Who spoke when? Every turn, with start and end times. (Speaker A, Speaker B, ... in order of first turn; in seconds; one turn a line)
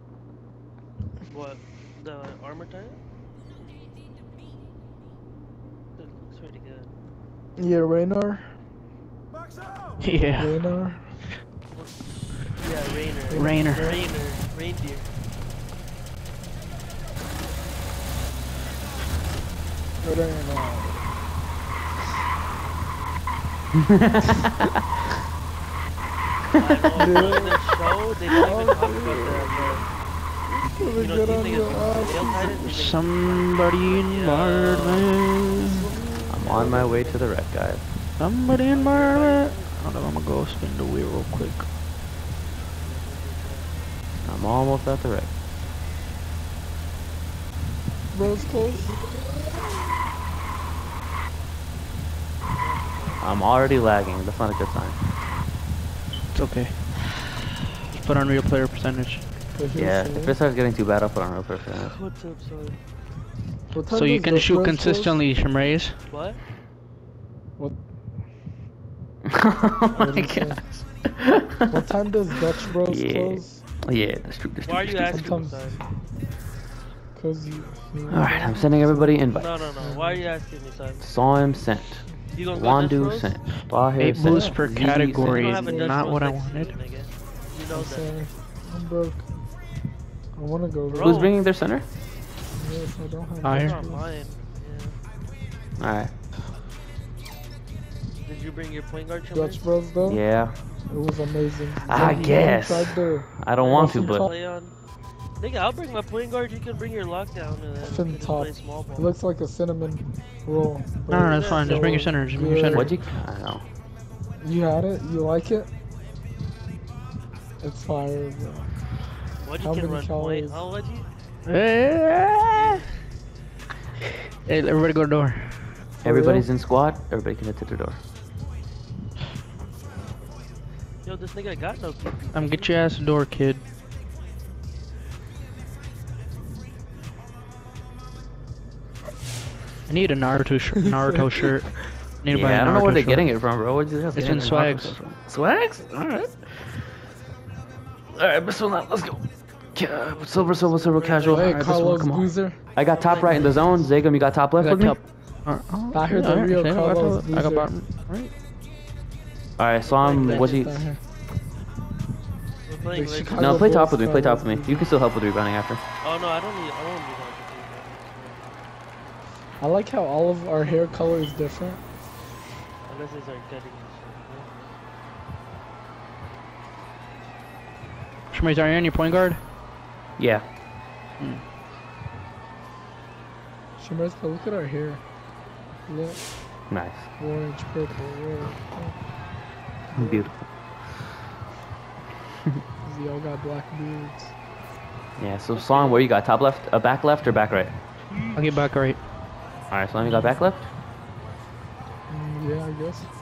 Speaker A: 1.3-3.0
Speaker A: 5.9-6.9
Speaker B: 7.5-8.6
Speaker C: 10.0-10.8
Speaker B: 10.3-11.2
Speaker A: 12.6-15.1
Speaker B: 13.3-14.0
Speaker C: 13.3-14.0
Speaker B: 20.0-21.1
Speaker D: 24.0-24.5
Speaker A: 26.5-29.9
Speaker B: 27.0-27.8
Speaker B: 28.4-29.9
Speaker B: 30.7-32.6
Speaker A: 30.8-37.5
Speaker C: 32.4-35.8
Speaker B: 36.2-37.1
Speaker D: 36.3-37.9
Speaker C: 38.2-41.7
Speaker A: 38.6-39.8
Speaker A: 42.8-43.8
Speaker D: 44.2-45.3
Speaker B: 48.1-49.1
Speaker A: 52.5-53.5
Speaker D: 53.2-55.0
Speaker C: 56.3-57.3
Speaker C: 57.9-59.4
Speaker B: 59.5-60.4
Speaker D: 59.8-62.0
Speaker A: 61.8-62.8
Speaker B: 63.7-65.2
Speaker C: 63.9-66.0
Speaker A: 66.1-66.4
Speaker B: 67.6-67.8
Speaker D: 69.3-71.8
Speaker B: 69.9-70.8
Speaker B: 71.7-73.6
Speaker D: 72.8-75.4
Speaker A: 74.6-75.8
Speaker B: 75.1-76.0
Speaker B: 77.1-79.2
Speaker D: 78.1-79.7
Speaker A: 79.3-81.1
Speaker B: 79.8-80.3
Speaker D: 81.0-85.4
Speaker A: 82.3-83.4
Speaker C: 84.0-86.8
Speaker B: 84.2-84.5
Speaker A: 85.2-88.2
Speaker B: 85.4-86.0
Speaker B: 87.7-89.3
Speaker B: 90.3-91.2
Speaker A: 90.9-91.3
Speaker D: 91.0-91.9
Speaker B: 92.5-94.1
Speaker C: 93.4-93.8
Speaker A: 93.4-95.0
Speaker D: 95.8-96.1
Speaker A: 98.2-99.7
Speaker B: 99.3-104.4
Speaker D: 100.0-100.6
Speaker D: 101.8-104.3
Speaker A: 103.6-109.1
Speaker B: 107.8-113.0
Speaker C: 111.1-113.0
Speaker A: 111.2-112.0
Speaker D: 112.7-113.7
Speaker B: 114.4-115.7
Speaker B: 117.6-119.0
Speaker A: 119.4-121.1
Speaker B: 119.6-120.7
Speaker C: 121.5-122.8
Speaker A: 122.5-122.9
Speaker C: 124.4-125.8
Speaker D: 126.0-128.0
Speaker B: 126.0-126.5
Speaker A: 131.0-132.8
Speaker C: 132.3-133.6
Speaker C: 139.9-143.6
Speaker D: 142.3-147.0
Speaker C: 144.1-145.0
Speaker D: 148.1-155.0
Speaker A: 150.0-151.6
Speaker B: 151.2-152.7
Speaker C: 151.3-151.7
Speaker A: 153.0-153.9
Speaker C: 154.6-158.3
Speaker B: 155.9-157.7
Speaker D: 159.6-160.9
Speaker A: 159.8-160.8
Speaker B: 160.0-161.0
Speaker A: 162.6-163.9
Speaker B: 162.9-164.8
Speaker D: 163.3-165.8
Speaker A: 166.0-168.6
Speaker B: 169.6-171.8
Speaker A: 172.8-174.5
Speaker C: 178.3-179.4
Speaker D: 180.2-180.5
Speaker C: 181.2-181.4
Speaker B: 183.8-185.0
Speaker B: 185.8-189.2
Speaker D: 186.7-187.1
Speaker B: 189.9-190.3
Speaker D: 189.9-190.4
Speaker B: 192.8-194.4
Speaker D: 195.2-197.8
Speaker A: 195.5-196.0
Speaker C: 198.3-199.0
Speaker D: 199.7-200.7
Speaker B: 200.0-200.3
Speaker B: 202.1-203.1